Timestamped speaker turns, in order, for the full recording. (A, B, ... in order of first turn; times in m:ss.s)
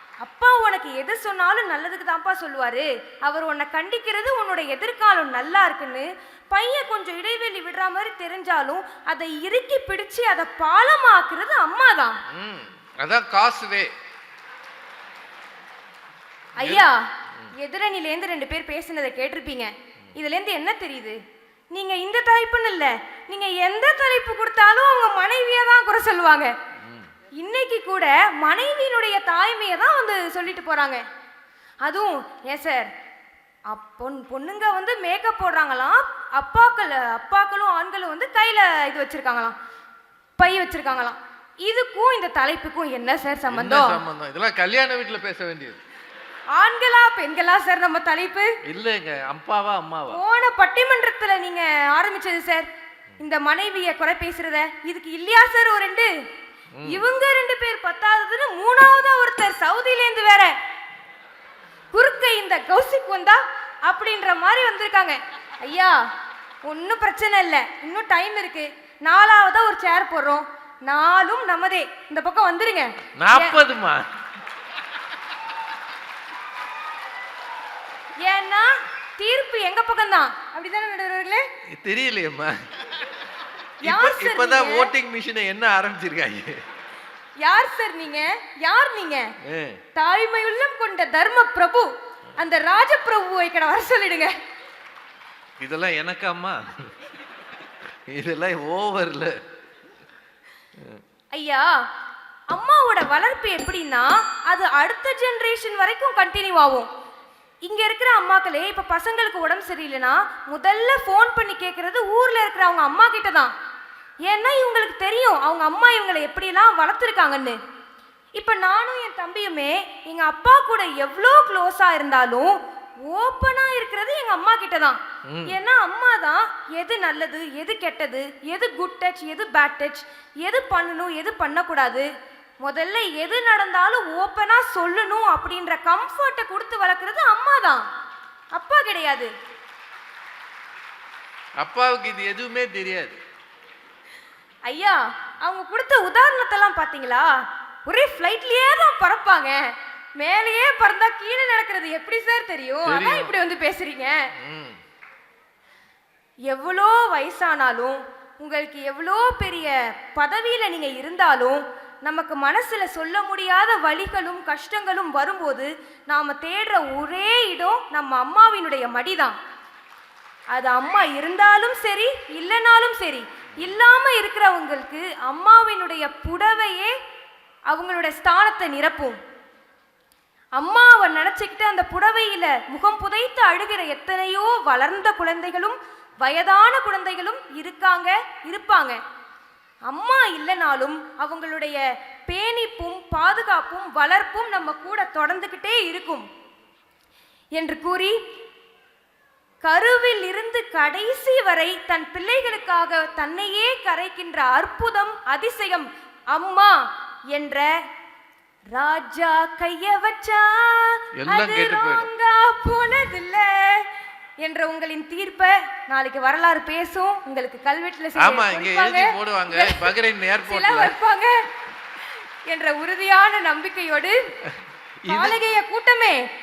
0:00.2-0:12.2 A
0:12.3-0:13.9 B
0:16.6-0:17.0 A
0:16.6-0:16.8 B
0:17.6-0:21.2 A
0:21.7-0:26.5 A
0:26.8-0:27.1 B
0:27.4-0:31.0 A
0:31.8-0:32.9 A
0:33.7-0:39.6 A
0:40.4-0:44.0 A
0:43.5-0:45.8 B
0:46.5-0:48.5 A
0:48.7-0:50.2 B
0:50.1-0:52.7 A
0:53.2-0:56.1 A
0:56.8-0:57.0 B
0:56.8-1:00.5 A
1:01.9-1:06.0 A
1:06.6-1:13.6 A
1:13.2-1:14.1 B
1:18.2-1:21.5 A
1:21.7-1:22.7 B
1:23.8-1:26.6 B
1:23.8-1:24.9 A
1:27.4-1:29.3 A
1:29.4-1:29.8 B
1:30.0-1:34.3 A
1:35.6-1:36.9 B
1:38.1-1:39.4 B
1:41.3-1:41.7 A
1:42.5-1:46.9 A
1:47.6-1:53.5 A
1:54.2-1:57.6 A
1:58.4-2:12.1 A
2:05.3-2:05.6 B
2:12.6-2:17.8 A
2:18.6-2:19.3 A
2:21.6-2:23.2 B
2:24.7-2:27.4 A
2:27.9-2:34.2 A
2:32.8-2:33.3 B
2:34.4-2:34.8 B
2:36.5-2:49.4 A
2:50.5-2:56.9 A
2:57.7-2:59.2 A
3:00.6-3:09.0 A
3:09.9-3:16.3 A
3:17.6-3:18.2 A
3:19.6-3:26.8 A
3:27.3-3:27.7 A
3:28.7-3:33.9 A
3:31.2-3:32.1 B
3:34.4-3:39.9 A
3:38.2-3:41.0 B
3:40.4-3:41.4 A
3:42.5-3:44.2 A
3:45.0-3:45.4 B
3:45.1-3:46.2 A